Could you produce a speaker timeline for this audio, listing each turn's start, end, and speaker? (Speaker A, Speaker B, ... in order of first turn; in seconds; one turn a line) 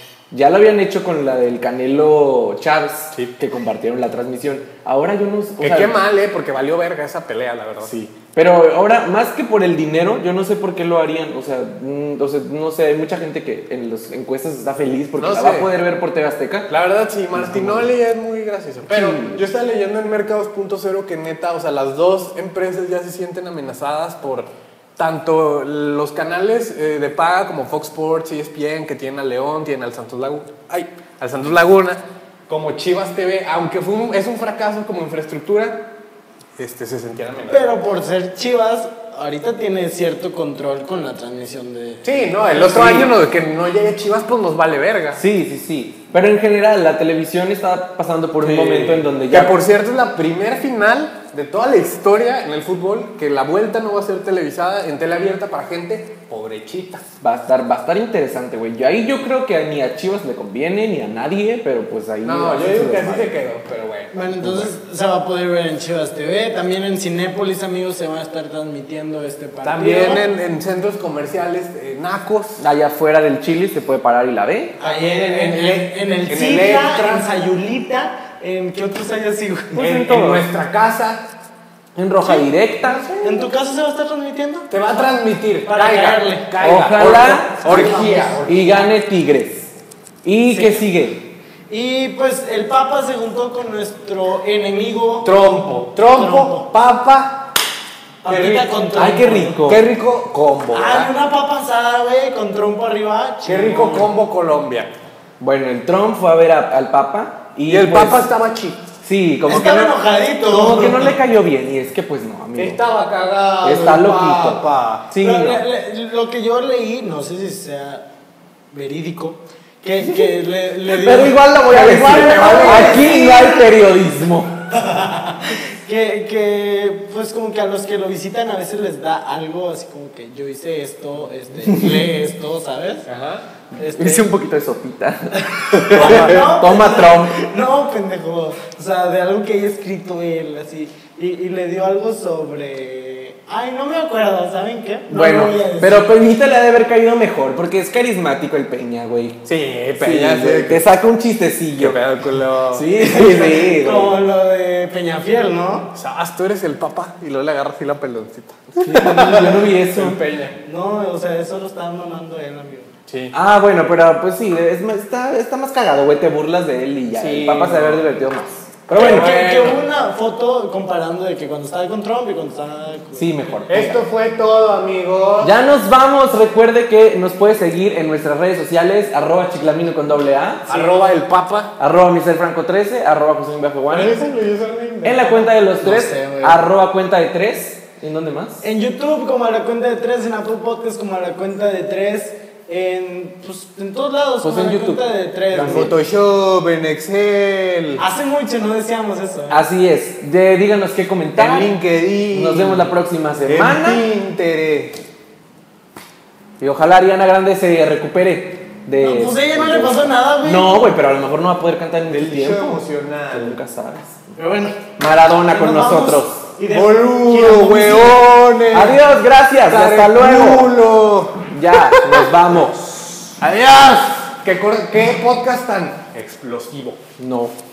Speaker A: 0.3-6.0
Speaker B: 5.6-8.1
Speaker A: 8.3-16.7
Speaker B: 15.2-15.7
Speaker B: 16.7-35.9
Speaker A: 17.3-17.9
Speaker A: 18.9-19.4
Speaker B: 36.6-37.8
Speaker C: 37.5-42.1
Speaker B: 42.0-45.2
Speaker A: 42.6-43.1
Speaker A: 45.2-49.5
Speaker B: 48.4-57.0
Speaker A: 57.2-63.3
Speaker B: 62.2-64.7
Speaker C: 64.1-70.2
Speaker B: 69.6-72.7
Speaker A: 72.6-74.8
Speaker C: 74.8-80.0
Speaker B: 74.8-77.3
Speaker A: 79.7-80.5
Speaker B: 79.8-81.2
Speaker A: 82.0-83.3
Speaker C: 82.2-82.5
Speaker C: 83.2-84.7
Speaker B: 84.7-88.9
Speaker C: 85.7-86.5
Speaker A: 86.6-87.8
Speaker C: 87.6-88.5
Speaker A: 88.5-89.7
Speaker A: 90.2-91.2
Speaker C: 90.5-90.9
Speaker C: 91.7-96.7
Speaker B: 95.2-97.5
Speaker C: 98.2-99.7
Speaker B: 98.3-101.1
Speaker A: 98.3-99.8
Speaker C: 100.7-104.1
Speaker B: 103.5-104.9
Speaker A: 105.4-108.3
Speaker B: 107.7-108.8
Speaker A: 109.0-112.8
Speaker C: 109.5-111.2
Speaker B: 112.6-115.1
Speaker A: 113.6-115.6
Speaker C: 115.2-118.0
Speaker C: 118.7-123.7
Speaker A: 120.8-124.5
Speaker B: 121.7-123.2
Speaker C: 124.7-133.1
Speaker A: 131.7-132.0
Speaker B: 133.1-133.4
Speaker C: 133.7-134.3
Speaker A: 133.9-137.4
Speaker C: 135.3-146.1
Speaker B: 136.0-136.4
Speaker A: 145.1-149.4
Speaker B: 149.4-150.9
Speaker A: 150.0-152.1
Speaker B: 151.8-152.9
Speaker A: 152.6-154.2
Speaker C: 152.9-155.9
Speaker B: 155.9-160.6
Speaker A: 158.8-160.2
Speaker C: 160.6-162.9
Speaker B: 163.1-163.3
Speaker A: 163.3-169.3
Speaker B: 167.1-168.1
Speaker B: 168.9-169.8
Speaker C: 168.9-173.6
Speaker A: 173.2-174.0
Speaker B: 173.7-175.5
Speaker A: 175.4-180.8
Speaker B: 180.7-181.7
Speaker A: 181.8-184.1
Speaker B: 183.9-185.4
Speaker A: 185.0-188.6
Speaker C: 185.8-186.7
Speaker C: 188.6-195.9
Speaker A: 194.4-195.9
Speaker B: 195.6-198.0
Speaker C: 198.0-199.6
Speaker A: 199.5-201.7
Speaker B: 201.4-202.9
Speaker A: 202.3-204.0
Speaker B: 203.5-205.0
Speaker A: 206.6-212.8
Speaker C: 209.0-210.9
Speaker B: 212.1-213.6
Speaker A: 213.3-214.3
Speaker C: 214.4-214.9
Speaker A: 215.0-216.5
Speaker C: 215.5-218.2
Speaker B: 216.7-219.1
Speaker A: 218.7-220.8
Speaker B: 219.7-222.2
Speaker A: 221.5-223.4
Speaker C: 223.4-224.1
Speaker B: 223.7-227.0
Speaker A: 227.2-227.5